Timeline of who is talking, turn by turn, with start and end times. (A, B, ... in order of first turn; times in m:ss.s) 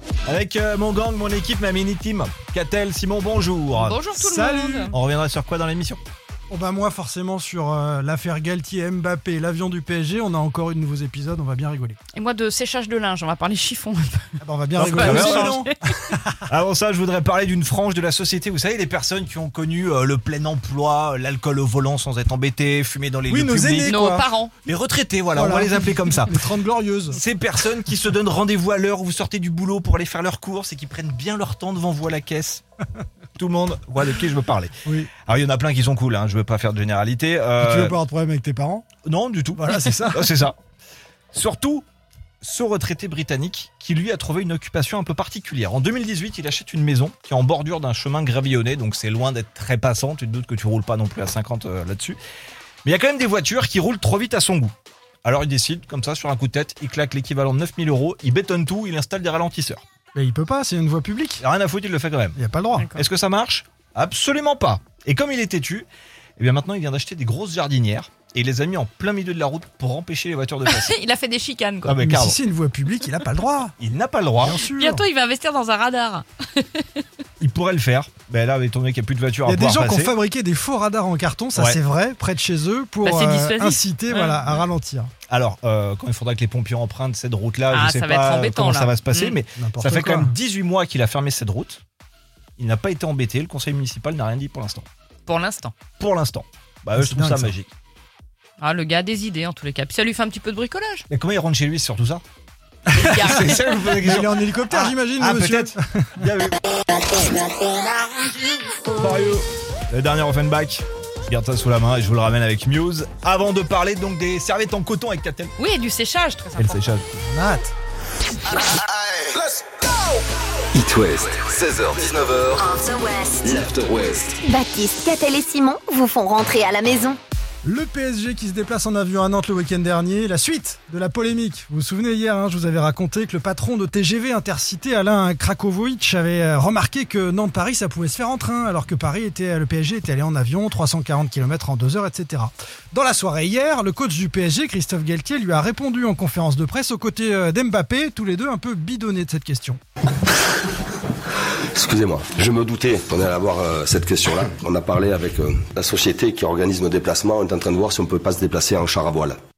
0:00.2-0:04.0 A
0:03.7-0:04.9 B
0:04.1-0:05.0 C
0:04.9-0:06.0 A
0:06.5-0:12.0 C
0:12.1-0:14.3 B
0:14.4-0:16.4 C
0:14.8-0:15.6 A
0:14.8-0:15.8 B
0:16.5-0:23.9 A
0:23.3-0:24.3 C
0:23.8-0:24.5 B
0:24.6-0:26.3 A
0:25.3-0:27.2 C
0:27.1-0:32.6 A
0:33.4-0:34.7 A
0:34.8-0:35.1 C
0:35.2-0:38.0 A
0:37.6-0:38.9 C
0:39.0-0:40.6 A
0:39.5-0:40.5 C
0:41.3-0:41.8 A
0:42.4-0:52.2 A
0:52.8-0:54.7 A
0:55.2-0:59.8 A
1:00.1-1:01.4 C
1:01.4-1:02.4 A
1:02.4-1:02.9 C
1:02.7-1:03.0 B
1:02.9-1:05.8 A
1:06.4-1:10.9 A
1:10.6-1:12.0 B
1:11.8-1:12.4 A
1:12.0-1:13.7 C
1:13.8-1:14.5 A
1:14.4-1:15.0 C
1:14.6-1:17.0 B
1:17.4-1:20.1 A
1:19.4-1:25.1 C
1:23.0-1:24.6 B
1:25.3-1:31.8 A
1:27.7-1:29.4 B
1:29.6-1:30.3 C
1:32.6-1:34.8 A
1:35.2-1:35.7 B
1:36.0-1:37.7 A
1:37.0-1:37.5 C
1:38.6-1:41.0 B
1:41.1-1:42.2 A
1:43.0-1:44.0 B
1:43.0-1:46.6 A
1:43.2-1:46.3 C
1:48.9-1:55.5 A
1:55.6-1:56.9 B
1:56.6-1:57.2 A
1:57.2-1:57.7 C
2:00.7-2:02.7 D
2:02.6-2:03.6 E
2:03.4-2:04.4 D
2:04.4-2:07.2 E
2:07.6-2:29.8 C
2:31.7-2:39.4 F